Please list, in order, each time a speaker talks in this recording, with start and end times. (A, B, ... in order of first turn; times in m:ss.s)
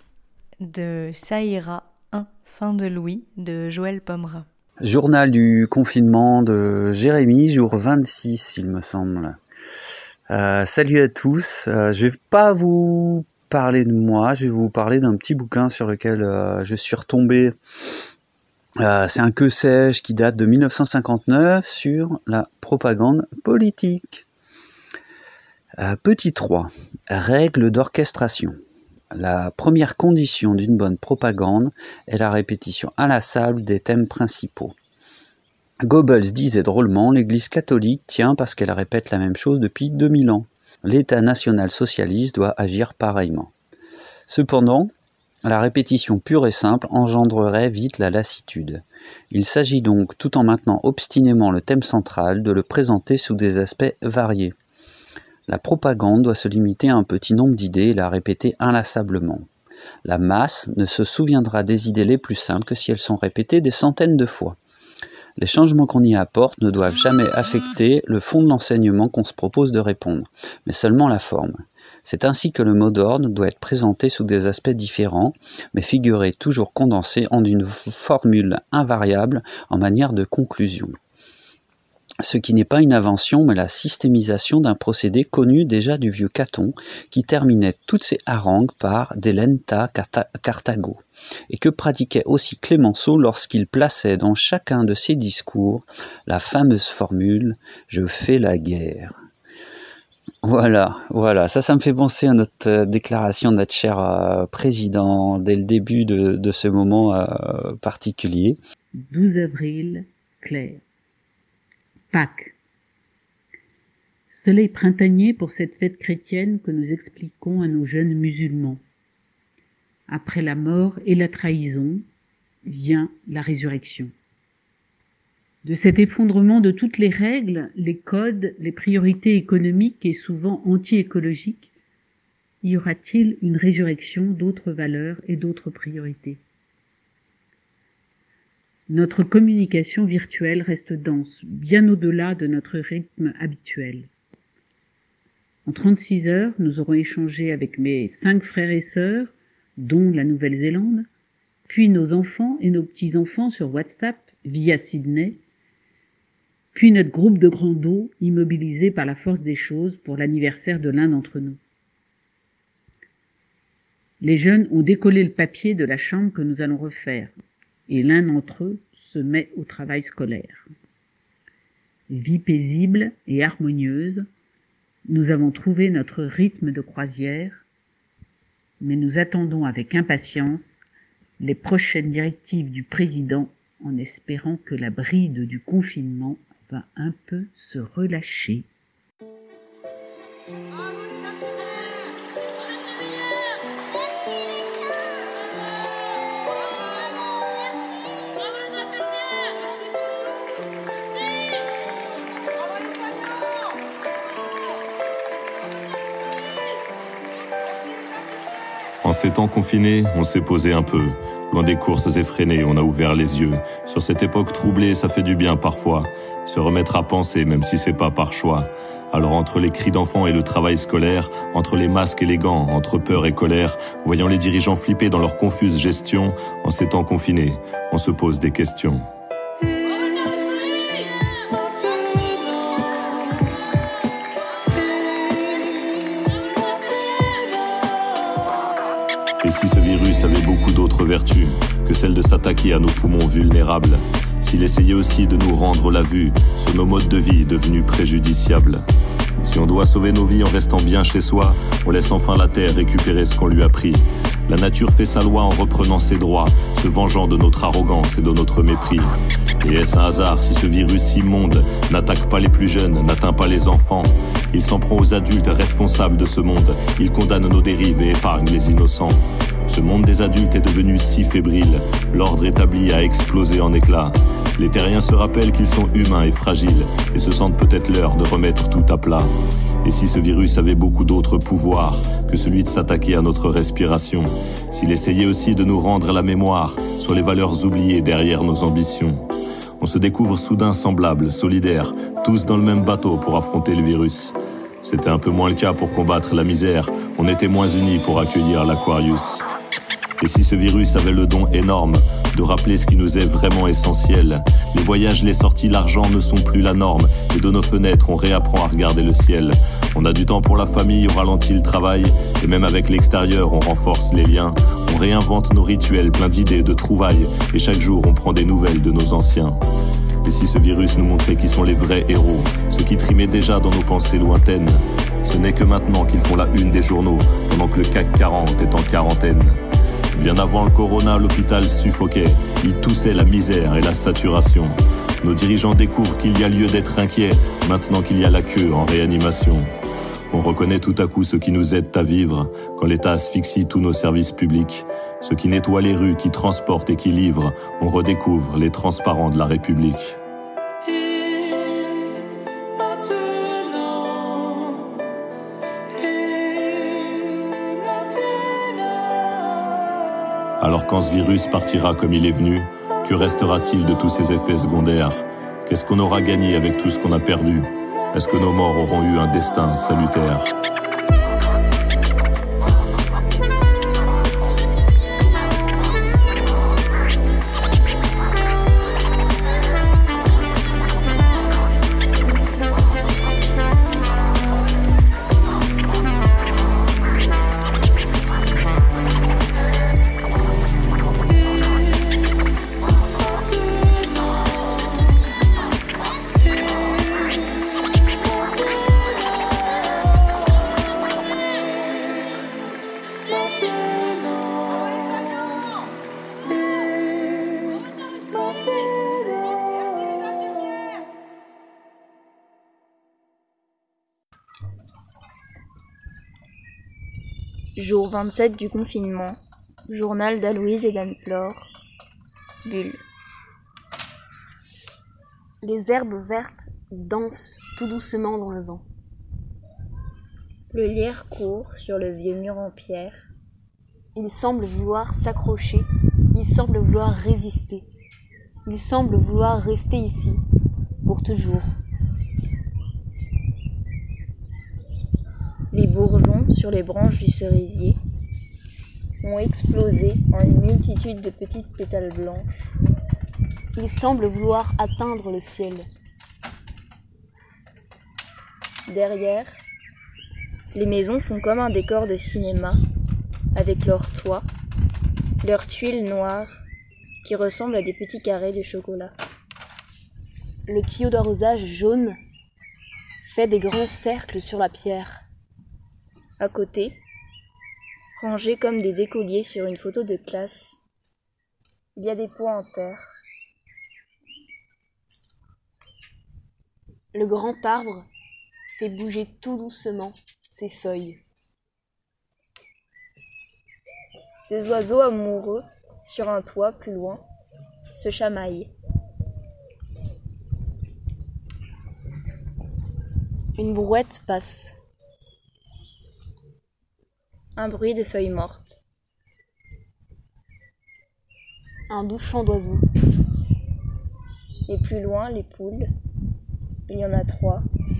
0:00.6-0:04.4 A
0:04.8-0:09.4 B
0:10.3-0:17.6 B
0:18.8-0:24.2 B
0:25.8-0:28.6 B
0:29.1-0:34.7 B
0:35.8-0:43.5 B
0:44.3-0:44.9 B
0:45.4-0:54.5 B
0:55.5-0:59.5 B
1:00.0-1:04.6 B
1:05.4-1:21.0 B
1:22.2-1:39.2 B
1:40.4-1:48.6 B
1:49.0-1:50.8 C
1:52.1-1:52.6 C
1:54.3-1:58.8 C
2:00.1-2:02.0 C
2:02.6-2:04.1 C
2:05.6-2:11.7 C
2:12.6-2:16.4 C
2:18.9-2:24.1 C
2:25.6-2:31.1 C
2:31.7-2:35.4 C
2:36.7-2:41.6 C
2:44.2-2:47.3 C
2:47.9-2:50.7 C
2:52.1-2:54.3 C
2:55.1-2:57.6 C
2:58.8-3:00.8 C
3:01.4-3:08.7 C
3:29.0-3:49.0 D
3:59.4-4:08.8 D
4:09.4-4:39.3 D
4:39.8-4:49.2 D
4:49.8-4:59.4 D
5:00.2-5:19.6 D
5:20.2-5:29.6 D
5:30.1-5:39.7 D
5:40.3-5:50.2 D
6:00.6-6:10.5 D
6:57.8-7:01.6 E
7:02.6-7:03.0 E
7:05.6-7:08.8 F
7:10.7-7:13.2 E
7:14.1-7:17.9 F
7:18.6-7:20.4 F
7:21.0-7:21.7 F
7:25.7-7:28.0 E
7:29.2-7:32.4 E
7:33.7-7:35.9 F
7:38.9-7:39.5 E
7:40.7-7:42.8 E
7:43.5-7:44.4 E
7:45.4-7:46.6 E
7:47.2-7:49.1 E
7:50.7-7:52.2 F
7:53.2-7:55.2 F
7:56.4-7:57.0 E
7:58.2-8:00.8 E
8:02.0-8:03.1 E
8:07.1-8:08.0 F
8:08.7-8:11.2 F
8:14.5-8:17.2 E
8:18.0-8:18.7 E
8:23.6-8:24.8 F
8:27.6-8:28.8 E
8:31.9-8:32.8 F
8:34.7-8:35.9 E
8:36.9-8:37.6 E